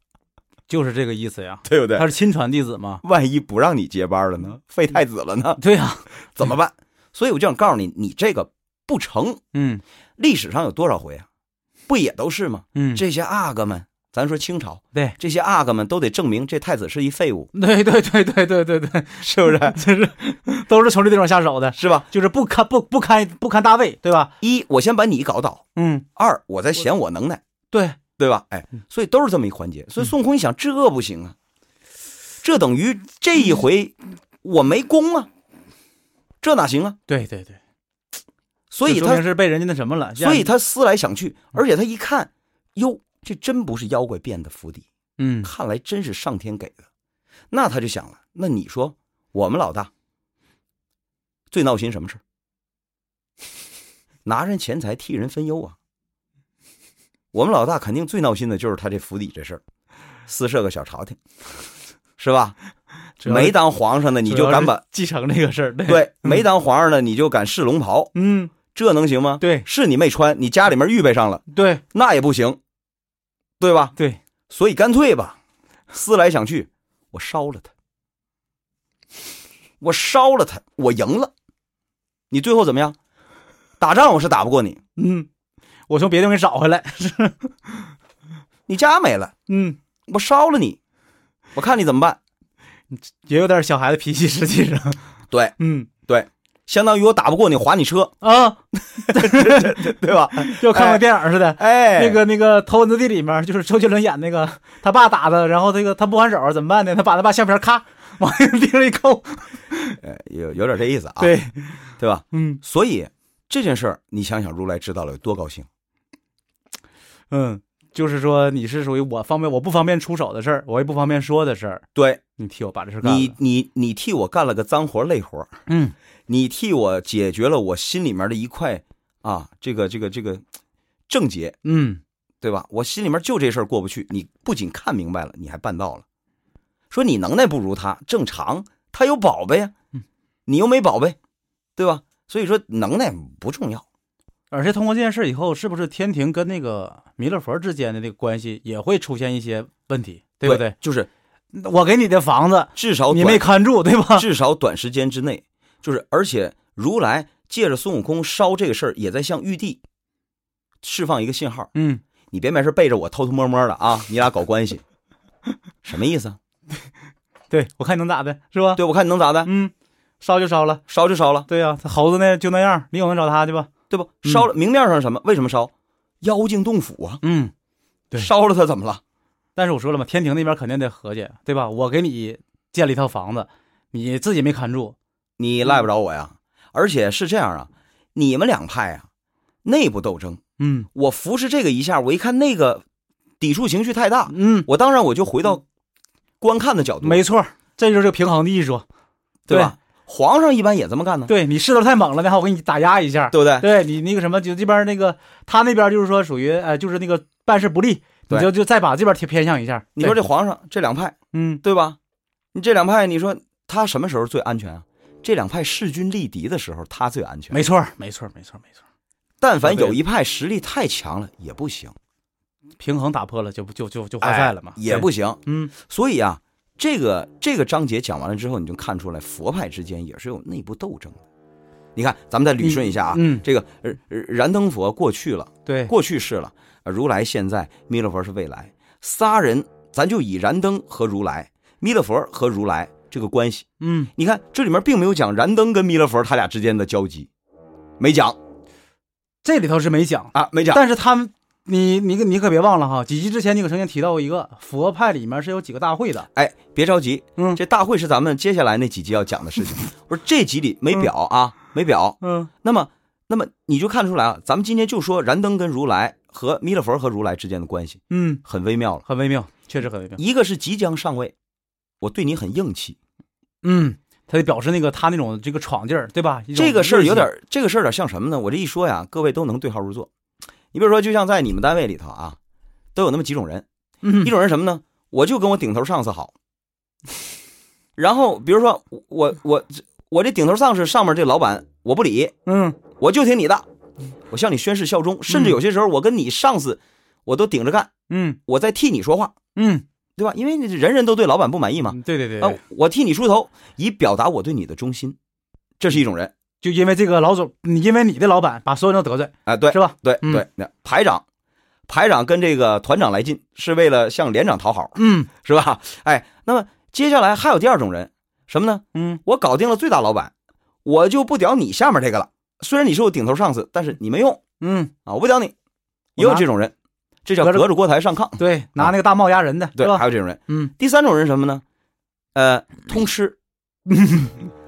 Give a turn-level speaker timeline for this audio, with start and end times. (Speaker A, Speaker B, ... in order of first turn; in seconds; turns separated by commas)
Speaker A: 0.7-3.0, Speaker B: 1.7-2.1, Speaker B: 3.0-5.6, Speaker A: 5.6-6.5, Speaker B: 6.3-9.4, Speaker A: 9.5-9.8, Speaker B: 10.2-11.3, Speaker B: 11.9-17.5, Speaker A: 12.8-13.0, Speaker A: 17.5-24.3, Speaker B: 19.2-19.8, Speaker B: 21.8-22.1, Speaker B: 24.4-25.6, Speaker A: 25.8-26.1, Speaker B: 26.2-27.4, Speaker A: 27.7-28.0, Speaker B: 28.2-31.4, Speaker B: 32.4-35.3, Speaker B: 36.4-37.0, Speaker A: 37.1-37.6, Speaker B: 38.7-39.2, Speaker A: 38.8-40.5, Speaker B: 40.2-44.9, Speaker A: 45.2-45.5, Speaker B: 45.4-46.9, Speaker B: 47.5-49.9, Speaker B: 51.5-52.2, Speaker B: 54.2-55.8, Speaker B: 57.3-59.6, Speaker B: 60.3-61.2, Speaker B: 62.2-62.6, Speaker A: 63.2-63.6, Speaker B: 63.2-64.8, Speaker A: 64.2-66.4, Speaker B: 65.9-68.1, Speaker A: 68.1-68.5, Speaker B: 68.7-72.6, Speaker A: 69.4-69.7, Speaker A: 71.5-71.8, Speaker B: 73.6-73.9, Speaker B: 74.5-75.4, Speaker B: 75.9-77.7, Speaker B: 79.8-81.3, Speaker B: 82.3-83.0, Speaker B: 83.8-84.8, Speaker A: 85.0-85.3, Speaker A: 85.9-87.9, Speaker B: 88.7-89.3, Speaker A: 89.5-89.8, Speaker B: 90.1-90.8, Speaker B: 91.5-92.2, Speaker A: 92.9-95.0, Speaker B: 95.3-95.6, Speaker A: 95.6-95.9, Speaker B: 96.1-98.2, Speaker A: 98.2-99.8, Speaker B: 99.1-102.2, Speaker A: 100.4-110.0, Speaker B: 110.0-111.4, Speaker A: 111.2-112.6, Speaker B: 112.0-115.7, Speaker A: 117.3-121.8, Speaker B: 122.0-122.2, Speaker A: 122.4-123.3, Speaker B: 123.0-125.5, Speaker A: 125.7-126.0, Speaker B: 126.3-130.4, Speaker B: 131.1-131.6, Speaker A: 131.7-132.0, Speaker B: 132.4-136.1, Speaker B: 136.9-139.7, Speaker B: 140.5-141.2, Speaker B: 141.8-143.8, Speaker A: 144.5-150.8, Speaker B: 150.4-151.1, Speaker A: 151.5-154.3, Speaker B: 152.8-153.5, Speaker B: 154.1-159.8, Speaker B: 160.8-161.7, Speaker A: 161.7-162.0, Speaker B: 162.3-164.8, Speaker B: 165.8-166.4, Speaker A: 167.5-168.8, Speaker B: 168.8-169.5, Speaker A: 169.4-170.8, Speaker B: 170.9-171.5, Speaker A: 171.5-173.7, Speaker B: 173.9-177.2, Speaker A: 177.2-177.5, Speaker B: 178.2-179.0, Speaker A: 179.6-185.0, Speaker B: 185.4-189.1, Speaker B: 189.6-190.4, Speaker A: 190.6-190.9, Speaker B: 190.9-192.8, Speaker B: 193.4-195.7, Speaker A: 194.3-194.7, Speaker B: 196.4-197.2, Speaker A: 197.0-198.8, Speaker B: 199.5-201.3, Speaker A: 201.3-210.2, Speaker B: 203.3-203.7, Speaker B: 210.0-212.0, Speaker A: 211.3-211.6, Speaker B: 212.5-217.6, Speaker A: 217.5-218.8, Speaker B: 219.4-221.9, Speaker A: 219.6-220.0, Speaker A: 222.8-225.7, Speaker B: 224.2-231.2, Speaker B: 232.0-247.3, Speaker A: 232.6-233.4, Speaker A: 235.7-235.9, Speaker A: 243.8-244.1, Speaker B: 248.0-248.4, Speaker A: 249.4-256.3, Speaker B: 250.3-250.8, Speaker B: 256.3-269.1, Speaker A: 262.2-262.5, Speaker A: 268.1-268.4, Speaker A: 269.1-270.2, Speaker B: 270.2-271.3, Speaker B: 272.0-273.0, Speaker A: 273.6-277.3, Speaker B: 276.6-280.1, Speaker B: 280.7-282.4, Speaker B: 282.9-283.6, Speaker A: 284.0-284.3, Speaker B: 284.2-286.3, Speaker B: 288.0-292.4, Speaker A: 292.5-292.8, Speaker B: 293.0-293.6, Speaker B: 294.3-297.9, Speaker A: 295.3-295.6, Speaker A: 298.1-298.4, Speaker B: 298.5-299.3, Speaker A: 299.6-299.9, Speaker B: 300.2-305.2, Speaker A: 301.9-302.6, Speaker B: 305.8-306.3, Speaker A: 306.6-310.4, Speaker B: 309.5-311.2, Speaker B: 311.9-320.3, Speaker A: 315.0-315.3, Speaker A: 318.9-319.2, Speaker B: 320.9-324.4, Speaker A: 324.6-324.9, Speaker B: 325.1-325.5, Speaker B: 326.2-326.7, Speaker A: 326.2-326.5, Speaker B: 327.3-328.9, Speaker A: 328.4-330.7, Speaker B: 329.8-331.6, Speaker B: 332.4-333.4, Speaker A: 334.0-334.3